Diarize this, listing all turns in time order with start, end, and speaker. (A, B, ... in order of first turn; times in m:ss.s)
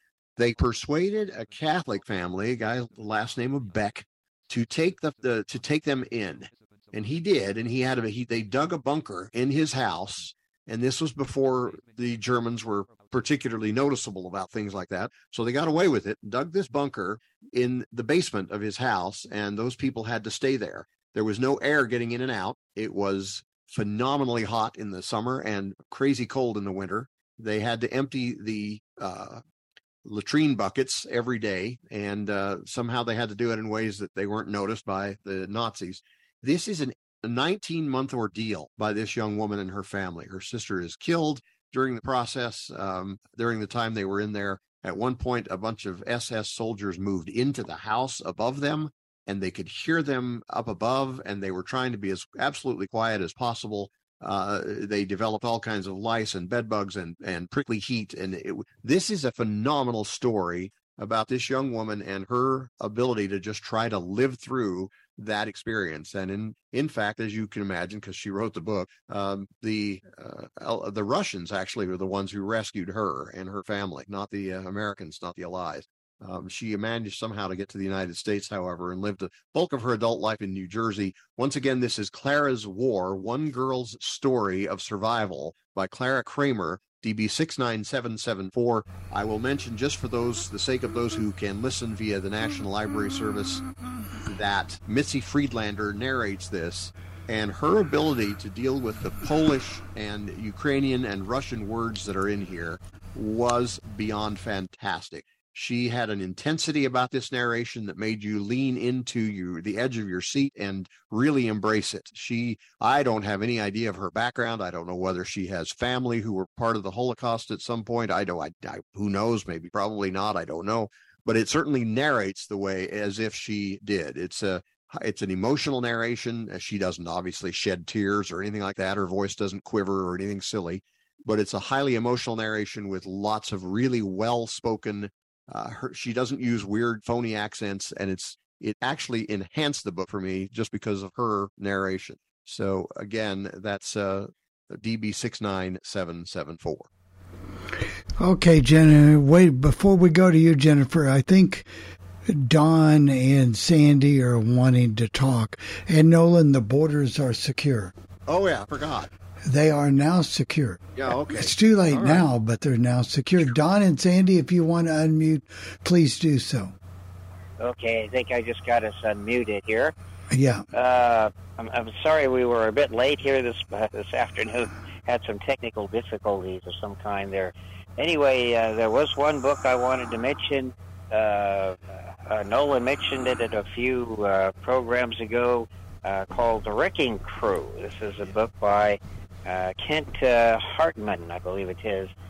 0:00.4-0:29.4 A
0:30.0-1:33.6 A
1:34.3-2:26.9 A
2:28.2-2:31.7 B
2:32.3-2:37.9 B
2:38.3-2:39.1 A
2:39.5-2:46.8 B
2:41.0-2:42.2 A
2:47.6-2:49.9 C
2:50.3-2:50.6 B
2:50.7-3:12.2 C